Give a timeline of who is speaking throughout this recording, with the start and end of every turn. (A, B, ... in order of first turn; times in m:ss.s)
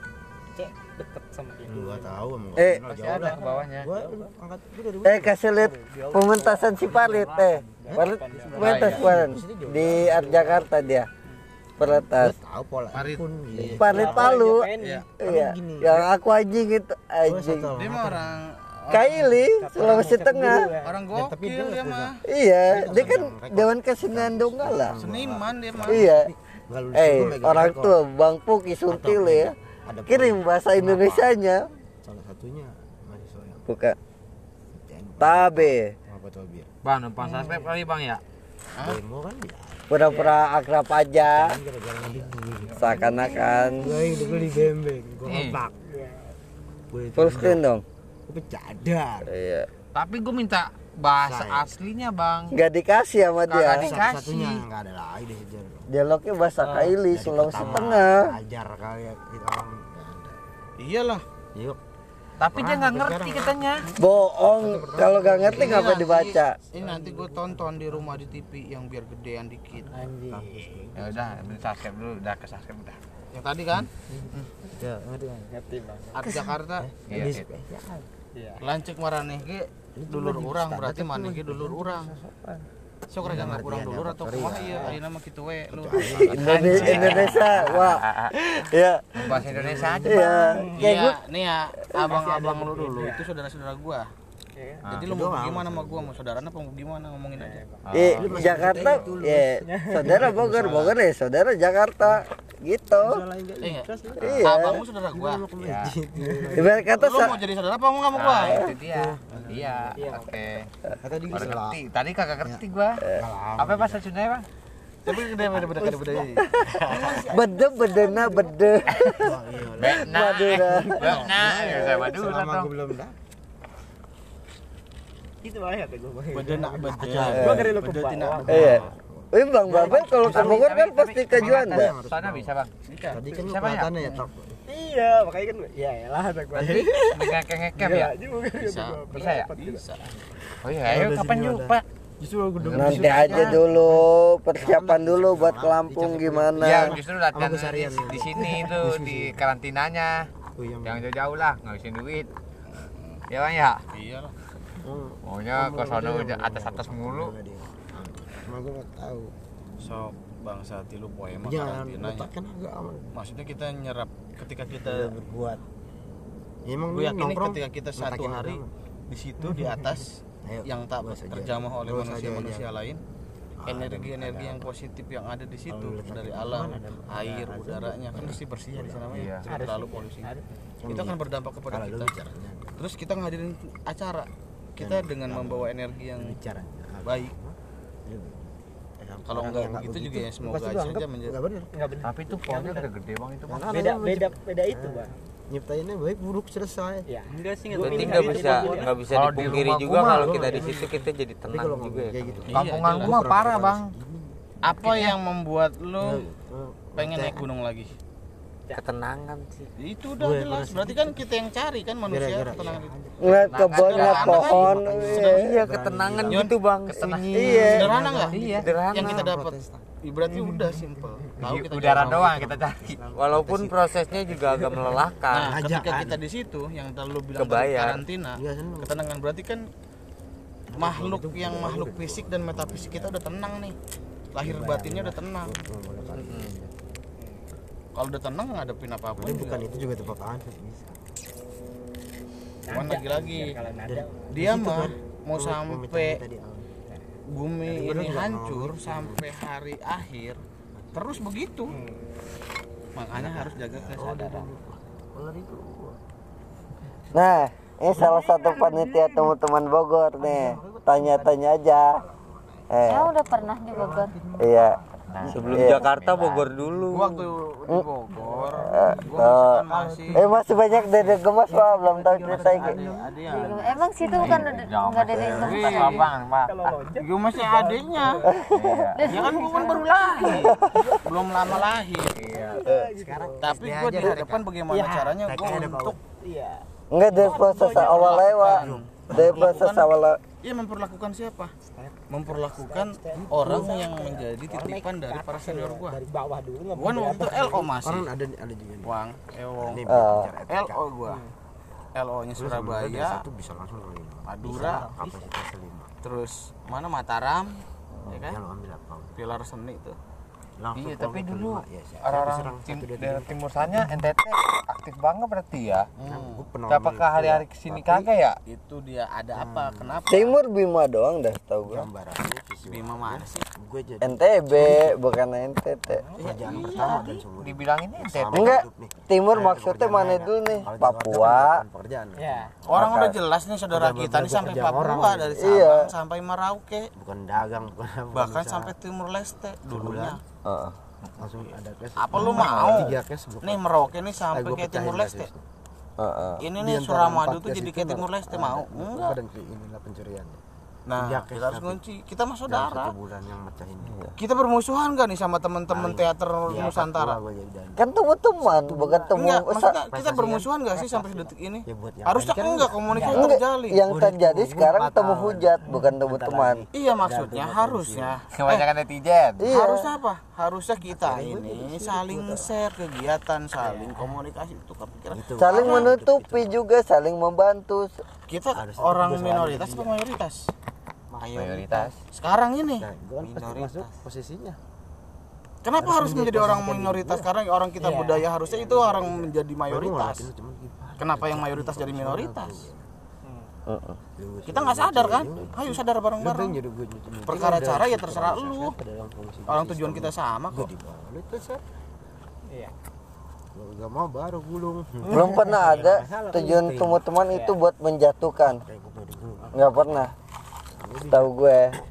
0:00.5-0:02.2 A
0:01.7-0:05.3 B
0:02.6-0:02.8 C
0:02.9-0:03.9 D
0:03.0-0:04.3 A
0:05.0-0:11.1 C
0:05.6-0:09.0 A
0:07.9-0:10.6 B
0:08.6-0:09.1 D
0:11.8-0:12.4 C
0:11.8-0:14.4 B
0:12.9-0:13.2 E
0:13.6-0:17.7 C
0:13.8-0:15.1 A
0:15.2-0:16.1 B
0:17.2-0:18.3 B
0:17.8-0:19.4 E
0:18.9-0:20.7 C
0:19.5-0:21.0 A
0:20.8-0:22.1 E
0:21.1-0:22.1 B
0:22.3-0:24.9 C
0:22.7-0:27.9 B
0:25.0-0:26.1 E
0:25.8-0:26.3 C
0:26.9-0:29.5 C
0:28.9-0:31.3 B
0:30.1-0:31.7 C
0:32.0-0:33.6 B
0:33.7-0:34.0 C
0:34.7-0:36.7 B
0:35.2-0:35.9 C
0:36.8-0:38.2 D
0:37.2-0:37.7 A
0:38.8-0:39.9 B
0:39.9-0:41.5 C
0:40.0-0:40.4 A
0:41.2-0:45.7 B
0:42.8-0:44.0 C
0:43.0-0:44.6 F
0:45.2-0:45.6 D
0:45.9-0:46.3 A
0:46.9-0:47.6 B
0:47.1-0:47.8 C
0:48.3-0:49.3 B
0:49.2-0:49.7 C
0:49.9-0:52.6 D
0:51.2-0:51.8 B
0:52.5-0:54.0 C
0:53.5-0:54.6 D
0:53.6-0:55.9 B
0:55.9-0:58.2 C
0:56.8-1:00.4 B
1:00.8-1:01.2 E
1:02.4-1:06.1 B
1:02.4-1:03.9 D
1:04.0-1:06.6 C
1:05.5-1:10.0 E
1:06.8-1:07.5 A
1:09.9-1:10.9 A
1:10.3-1:11.2 B
1:10.9-1:13.0 D
1:13.3-1:14.4 E
1:14.8-1:15.5 B
1:15.5-1:16.4 A
1:16.1-1:16.9 E
1:16.2-1:18.1 B
1:17.1-1:17.4 D
1:18.3-1:18.6 A
1:18.6-1:22.1 E
1:20.0-1:22.5 B
1:23.1-1:27.3 E
1:23.2-1:25.0 B
1:25.7-1:27.7 B
1:26.3-1:28.3 D
1:26.3-1:29.2 C
1:29.2-1:30.4 D
1:29.2-1:30.2 B
1:30.0-1:31.2 C
1:30.4-1:30.8 A
1:30.8-1:34.1 E
1:32.0-1:33.3 A
1:34.6-1:34.8 A
1:34.8-1:37.6 E
1:35.0-1:36.2 B
1:37.4-1:37.9 A
1:37.8-1:38.9 D
1:37.9-1:43.2 C
1:38.1-1:41.0 B
1:39.6-1:40.4 A
1:42.9-1:46.7 B
1:43.6-1:45.4 E
1:44.2-1:44.8 C
1:45.6-1:46.0 D
1:46.2-1:46.6 A
1:46.6-1:47.4 C
1:46.9-1:48.6 E
1:48.1-1:50.7 D
1:48.5-1:50.0 B
1:50.0-1:50.3 A
1:51.0-1:51.8 B
1:51.3-1:53.0 D
1:53.1-1:54.0 B
1:53.6-1:54.4 D
1:55.0-1:57.4 E
1:55.4-1:57.2 B
1:56.0-1:56.4 A
1:57.3-1:59.4 C
1:58.0-1:58.5 A
1:59.1-2:03.1 B
1:59.8-2:02.7 D
1:59.9-2:01.2 C
2:05.4-2:08.8 A
2:06.3-2:08.9 E
2:06.9-2:10.7 B
2:08.5-2:11.9 C
2:10.2-2:12.7 D
2:11.3-2:12.5 B
2:12.9-2:13.2 E
2:13.1-2:14.6 B
2:13.4-2:14.0 D
2:14.7-2:17.1 A
2:16.6-2:17.4 B
2:17.1-2:18.1 D
2:17.8-2:19.8 A
2:18.6-2:20.0 E
2:19.1-2:19.5 D
2:20.6-2:21.8 D
2:20.8-2:24.1 B
2:22.6-2:23.6 D
2:22.7-2:27.0 C
2:24.6-2:29.4 B
2:26.6-2:30.3 D
2:30.6-2:31.1 B
2:30.8-2:32.3 D
2:33.3-2:33.8 D
2:33.9-2:34.3 E
2:34.8-2:39.3 B
2:35.2-2:37.3 D
2:39.8-2:42.3 E
2:41.4-2:43.1 B
2:43.1-2:45.1 E
2:44.8-2:45.6 B
2:46.6-2:48.7 B
2:46.9-2:53.0 E
2:49.4-2:52.6 B
2:53.6-2:54.7 B
2:53.6-3:00.3 E
2:55.7-2:59.6 B
2:59.1-2:59.4 D
2:59.5-3:00.4 A
3:00.8-3:02.8 B
3:00.9-3:02.1 E
3:02.8-3:06.4 E
3:04.8-3:11.7 B
3:07.0-3:07.3 E
3:09.2-3:11.4 E
3:11.7-3:12.9 A
3:12.0-3:13.7 D
3:13.5-3:17.0 B
3:13.6-3:15.1 A
3:17.1-3:19.0 A
3:17.7-3:22.5 G
3:17.8-3:20.7 D
3:19.3-3:25.0 B
3:22.4-3:23.9 D
3:22.5-3:23.2 E
3:24.6-3:26.2 E
3:24.8-3:25.1 D
3:26.0-3:27.4 B
3:27.0-3:27.9 E
3:28.7-3:29.7 G
3:29.8-3:32.9 E
3:30.2-3:31.2 B
3:32.1-3:32.9 B
3:33.2-3:35.4 C
3:33.2-3:34.6 D
3:33.6-3:35.4 E
3:34.0-3:36.5 B
3:35.2-3:38.0 G
3:36.2-3:38.4 E
3:37.3-3:37.9 C
3:37.5-3:39.8 B
3:38.3-3:38.9 D
3:38.6-3:39.2 G
3:38.9-3:42.3 E
3:41.4-3:43.0 D
3:41.4-3:46.2 B
3:43.1-3:45.5 G
3:45.3-3:49.6 E
3:47.4-3:48.0 G
3:48.4-3:49.0 B
3:50.7-3:53.2 B
3:50.8-3:53.8 E
3:54.3-3:55.5 E
3:54.4-3:56.7 B
3:56.1-3:56.5 D
3:57.9-3:59.8 E
3:59.2-4:01.0 B
4:02.7-4:04.3 A
4:02.7-4:03.6 E
4:03.8-4:06.7 B
4:04.3-4:06.2 E
4:07.3-4:10.4 E
4:07.6-4:09.2 B
4:10.9-4:11.7 E
4:11.7-4:12.0 A
4:13.0-4:14.5 E
4:13.1-4:16.0 B
4:17.1-4:22.0 C
4:17.9-4:19.3 B
4:20.2-4:21.4 B
4:22.0-4:23.0 B
4:22.7-4:23.1 C
4:22.8-4:24.2 F
4:23.7-4:25.4 B
4:24.4-4:24.8 C
4:25.1-4:26.5 D
4:25.3-4:25.8 C
4:25.3-4:27.2 G
4:26.8-4:30.2 E
4:28.2-4:35.9 B
4:28.7-4:32.8 C
4:32.3-4:33.8 A
4:32.3-4:33.6 E
4:33.3-4:36.1 F
4:34.1-4:36.7 D
4:35.5-4:36.0 E
4:35.8-4:38.4 A
4:37.0-4:38.2 E
4:38.4-4:38.8 C
4:38.5-4:39.0 D
4:38.9-4:40.4 F
4:39.0-4:41.0 A
4:39.1-4:42.2 E
4:40.4-4:40.9 C
4:42.2-4:42.6 D
4:42.3-4:43.5 A
4:42.9-4:46.0 B
4:43.4-4:46.0 E
4:44.7-4:45.1 A
4:46.0-4:48.4 A
4:46.9-4:50.2 C
4:47.4-4:49.9 E
4:48.4-4:49.6 B
4:50.4-4:51.5 E
4:51.6-4:57.7 A
4:52.1-4:56.0 E
4:53.2-4:53.7 B
4:56.7-4:58.1 E
4:57.1-4:58.9 B
4:58.8-4:59.8 E
4:59.6-5:00.8 B
4:59.9-5:00.3 C
5:00.5-5:01.2 E
5:01.9-5:03.2 E
5:02.4-5:05.9 B
5:04.3-5:04.9 E
5:04.4-5:05.2 A
5:06.0-5:08.4 E
5:08.2-5:09.1 B
5:09.2-5:10.0 E
5:10.6-5:13.8 B
5:10.8-5:15.9 D
5:16.0-5:16.4 E
5:16.0-5:18.1 B
5:16.7-5:18.4 D
5:18.5-5:20.4 E
5:19.3-5:20.0 B
5:20.1-5:21.9 C
5:21.7-5:24.9 B
5:22.7-5:23.4 E
5:24.0-5:26.0 C
5:26.2-5:35.4 B
5:26.2-5:27.2 E
5:27.4-5:28.6 D
5:28.3-5:31.6 C
5:32.2-5:32.5 A
5:32.7-5:36.9 E
5:35.4-5:35.9 C
5:37.0-5:38.7 B
5:38.1-5:40.2 E
5:39.7-5:40.2 B
5:40.4-5:40.8 C
5:41.2-5:43.6 B
5:42.0-5:45.3 E
5:42.2-5:42.9 D
5:44.3-5:45.4 B
5:46.0-5:46.4 C
5:46.4-5:49.2 E
5:46.5-5:50.4 B
5:50.9-5:52.9 E
5:51.0-5:51.8 B
5:52.5-5:54.0 B
5:54.2-5:57.2 E
5:55.7-5:57.8 B
5:57.8-5:59.8 C
5:58.4-5:59.2 B
5:59.1-6:03.8 E
5:59.9-6:03.3 B
6:03.1-6:06.6 C
6:03.8-6:08.2 B
6:06.7-6:08.7 E
6:08.3-6:09.5 D
6:09.4-6:09.9 C
6:09.5-6:15.9 E
6:10.9-6:12.5 B
6:13.6-6:14.1 B
6:15.1-6:16.5 B
6:15.4-6:17.9 C
6:18.3-6:20.5 E
6:18.5-6:19.9 B
6:21.1-6:21.9 G
6:21.4-6:21.9 D
6:22.1-6:22.9 E
6:22.7-6:24.6 B
6:23.2-6:24.0 G
6:25.6-6:30.3 E
6:25.8-6:27.3 B
6:27.8-6:28.2 A
6:28.4-6:32.8 B
6:31.0-6:32.7 E
6:33.7-6:34.0 C
6:34.2-6:41.6 B
6:34.5-6:36.6 E
6:37.2-6:38.7 E
6:39.5-6:40.7 E
6:43.5-6:47.0 B
6:45.1-6:48.6 C
6:45.2-6:46.3 A
6:47.3-6:47.6 A
6:48.4-6:50.1 B
6:49.5-6:50.1 C
6:50.7-6:51.3 B
6:51.1-6:51.7 C